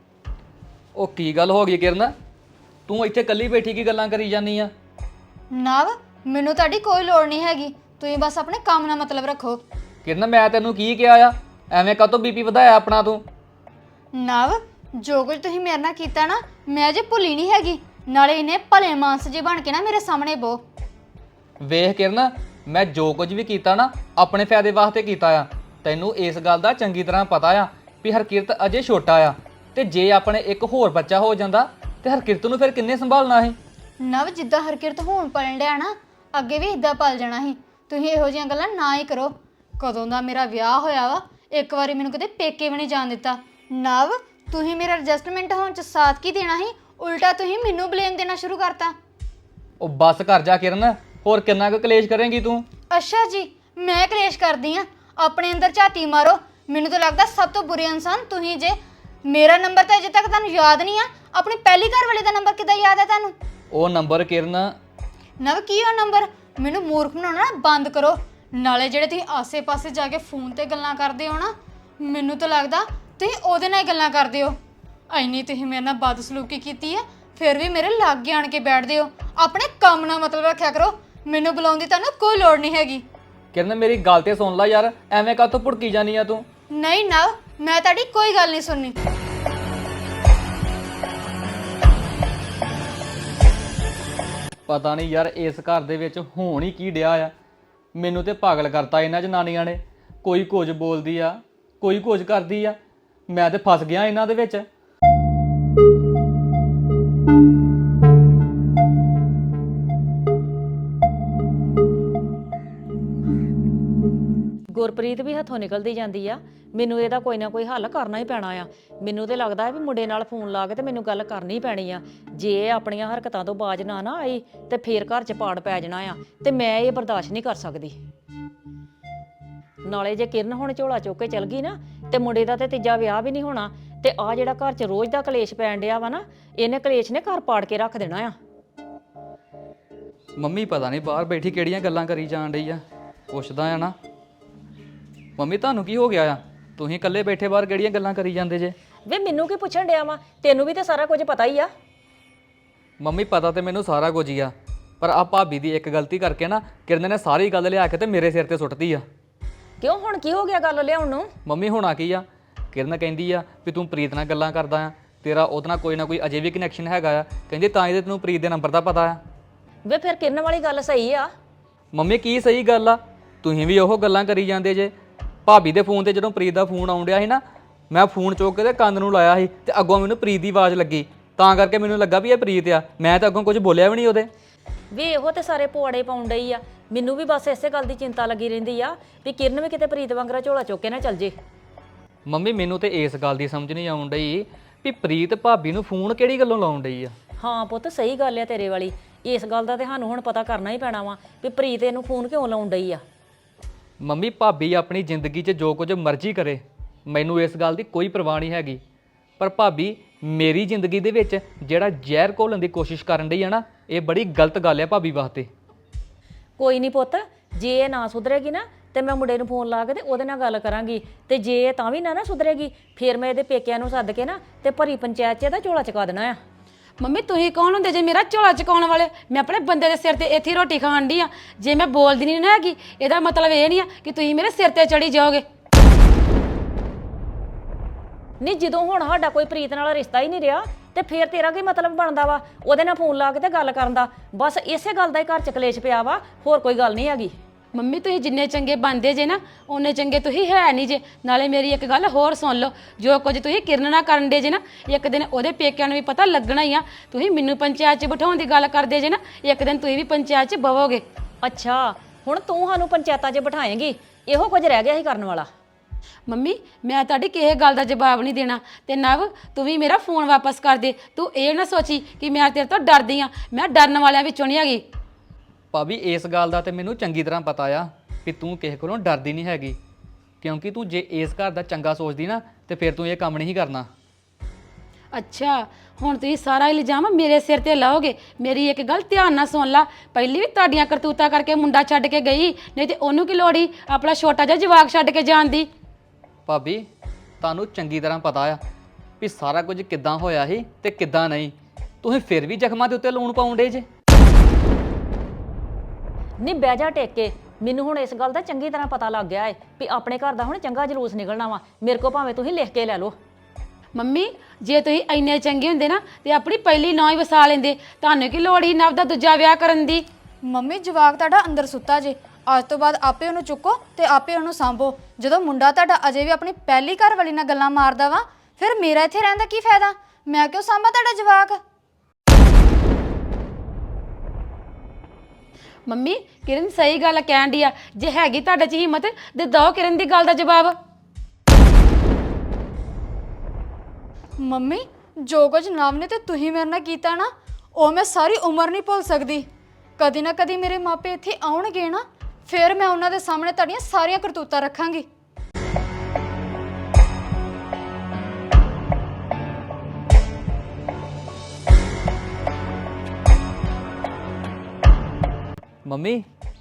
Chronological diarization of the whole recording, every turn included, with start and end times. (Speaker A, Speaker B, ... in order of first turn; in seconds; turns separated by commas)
Speaker A: 1.0-2.1, Speaker A: 2.9-4.7, Speaker B: 5.5-9.6, Speaker A: 10.1-13.2, Speaker B: 14.2-20.6, Speaker A: 21.6-33.6, Speaker B: 34.0-48.9, Speaker A: 49.8-52.7, Speaker B: 52.9-58.8, Speaker B: 59.3-63.3, Speaker A: 63.7-64.7, Speaker B: 65.4-74.6, Speaker B: 75.1-83.0, Speaker A: 83.5-86.5, Speaker B: 86.7-89.0, Speaker A: 94.7-97.3, Speaker A: 97.9-102.8, Speaker A: 103.3-104.7, Speaker C: 114.7-128.0, Speaker C: 129.8-138.3, Speaker A: 140.4-143.9, Speaker A: 145.4-148.8, Speaker C: 149.1-151.7, Speaker A: 153.0-159.0, Speaker C: 159.8-161.3, Speaker A: 161.4-169.2, Speaker C: 169.9-171.3, Speaker A: 171.9-174.9, Speaker A: 175.4-184.3, Speaker C: 184.9-191.3, Speaker A: 192.3-197.2, Speaker C: 197.4-203.0, Speaker A: 204.0-208.8, Speaker A: 209.4-215.5, Speaker C: 216.6-226.4, Speaker D: 227.0-235.4, Speaker C: 238.4-247.3, Speaker D: 247.7-261.0, Speaker C: 261.4-265.5, Speaker D: 266.3-274.8, Speaker A: 275.7-279.8, Speaker A: 280.4-283.9, Speaker D: 285.1-295.7, Speaker A: 296.5-296.9, Speaker A: 297.4-298.6, Speaker A: 299.2-303.9, Speaker C: 306.4-313.1, Speaker D: 313.9-320.1, Speaker B: 320.5-331.6, Speaker D: 335.9-340.8, Speaker B: 344.4-349.5, Speaker B: 350.0-355.1, Speaker A: 365.8-366.3